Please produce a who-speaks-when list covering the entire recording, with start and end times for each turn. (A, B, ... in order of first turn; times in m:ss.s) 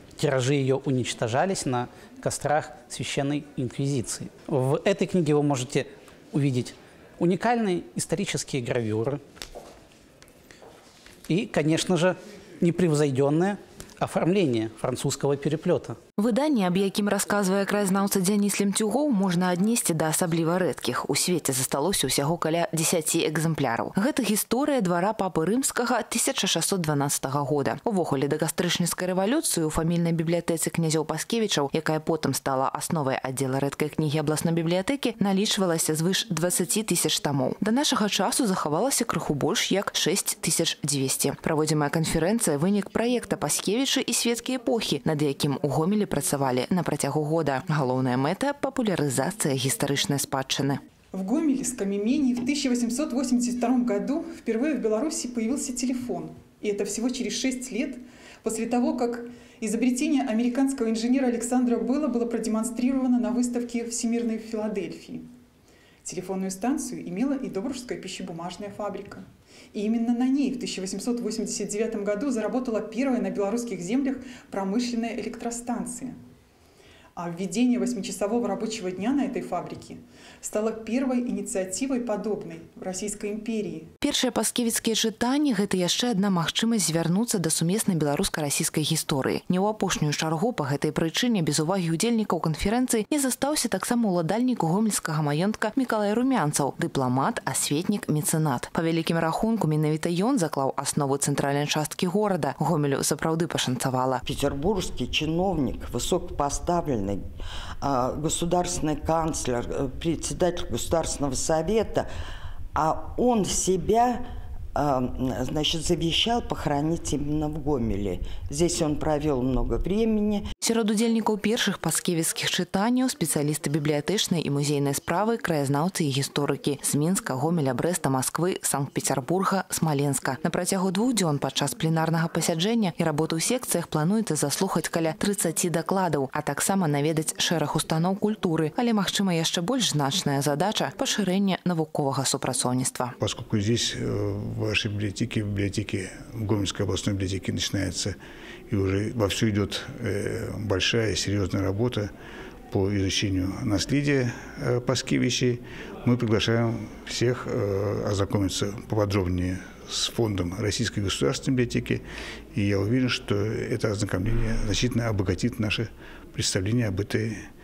0:00.2-0:09.2 A
0:11.3-0:16.0 A
0:16.2-0:50.8 B
0:51.1-1:05.3 C
1:06.0-1:16.2 C
1:17.2-1:23.9 C
1:24.0-1:44.2 B
1:44.2-1:47.2 D
1:47.8-1:52.1 D
1:52.7-1:54.2 D
1:54.7-2:00.4 D
2:00.6-2:23.1 B
2:23.2-2:28.2 E
2:28.7-2:32.1 E
2:32.7-2:42.0 E
2:42.5-2:47.4 E